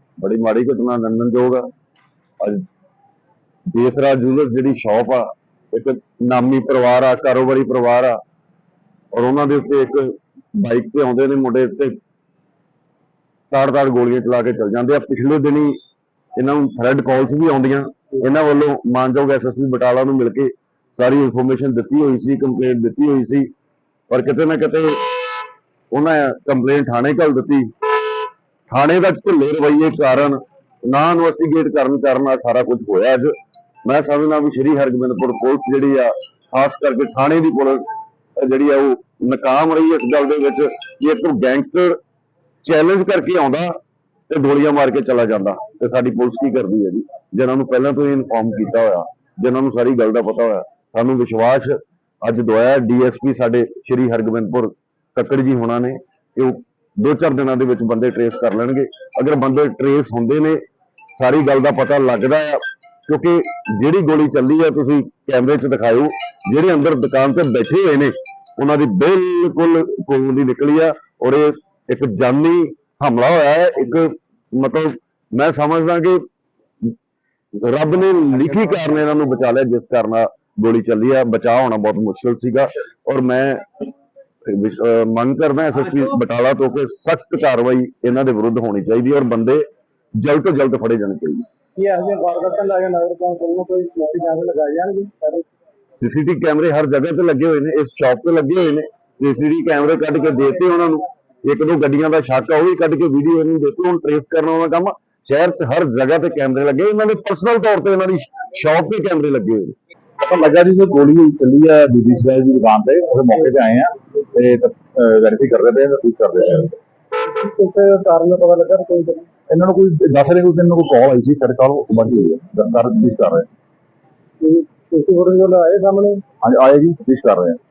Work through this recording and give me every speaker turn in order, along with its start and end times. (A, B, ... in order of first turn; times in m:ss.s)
0:00.2-0:01.7 A
0:03.7-0:08.2 A
0:09.1-0:12.0 A
0:13.5-0:15.8 A
0:16.4-0:23.5 A
0:24.1-0:25.1 A
0:25.9-0:27.7 A
0:28.7-0:33.3 A
0:33.9-0:37.9 A
0:38.4-0:42.0 A
0:42.6-0:43.8 A
0:44.3-1:00.6 A
1:01.2-1:16.2 A
1:17.6-1:23.9 A
1:24.5-1:29.6 A
1:30.2-1:31.5 A
1:31.8-1:35.5 B
1:36.0-1:49.8 A
1:50.2-1:56.8 C
1:57.2-1:59.3 B
1:59.5-2:03.5 C
2:04.4-2:06.2 B
2:06.4-2:07.6 C